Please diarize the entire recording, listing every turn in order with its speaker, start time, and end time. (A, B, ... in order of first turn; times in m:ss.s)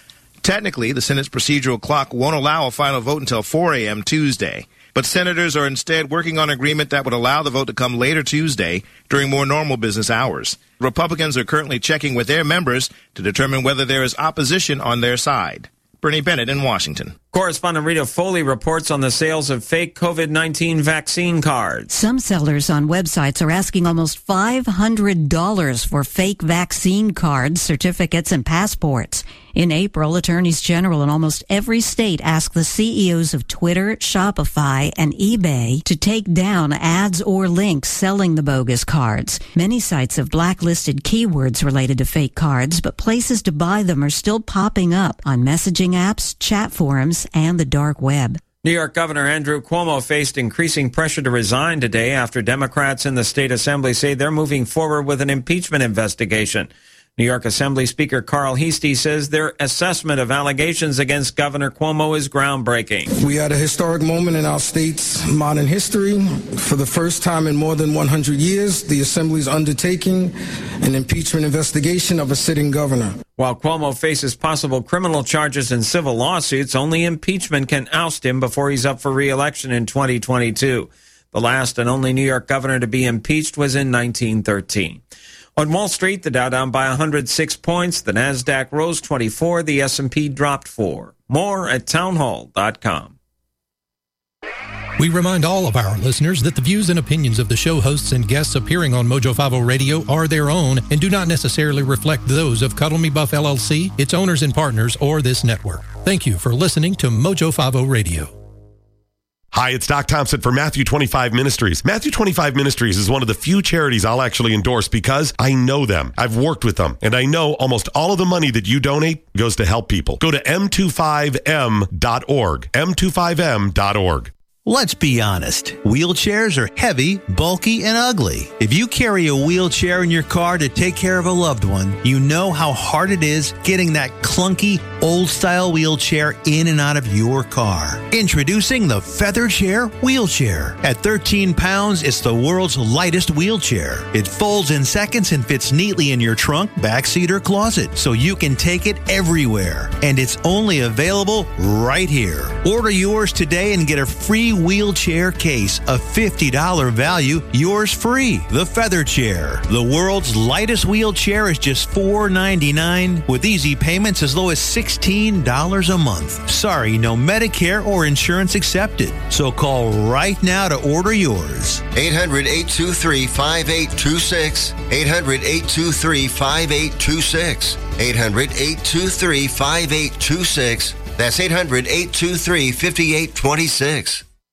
0:00.4-0:17.1 A
0:17.3-0:21.9 B
0:21.9-0:48.4 C
0:48.6-1:03.1 B
1:03.2-1:13.2 D
1:13.4-1:25.0 B
1:25.6-1:33.1 B
1:35.0-1:48.3 E
1:49.5-2:04.3 F
2:04.6-2:51.8 G
2:51.9-3:04.2 H